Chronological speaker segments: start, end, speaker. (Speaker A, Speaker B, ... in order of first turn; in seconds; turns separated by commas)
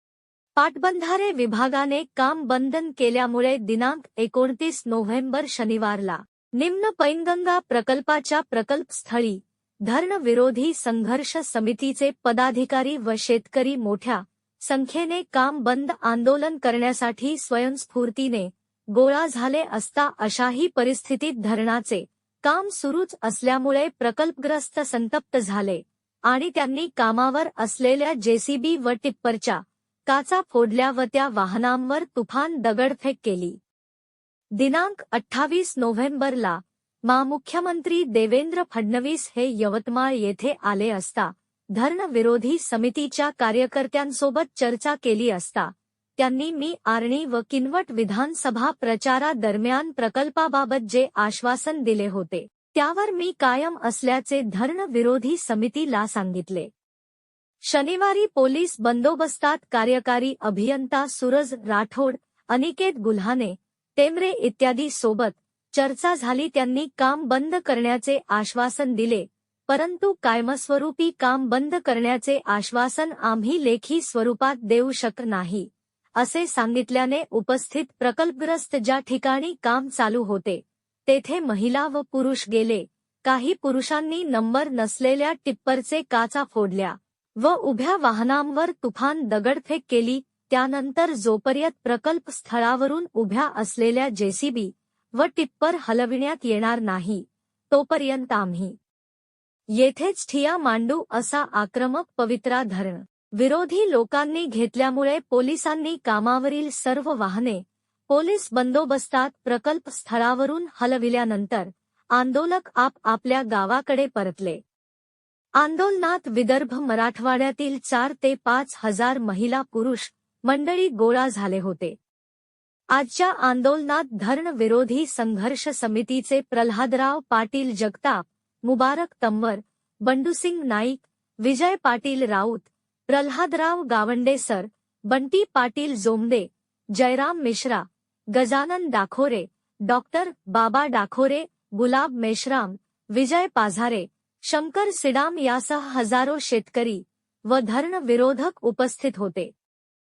Speaker A: 0.6-33.6, Speaker A: 34.6-56.7, Speaker A: 57.7-98.7, Speaker A: 99.8-114.6, Speaker A: 115.6-122.0, Speaker A: 122.9-149.5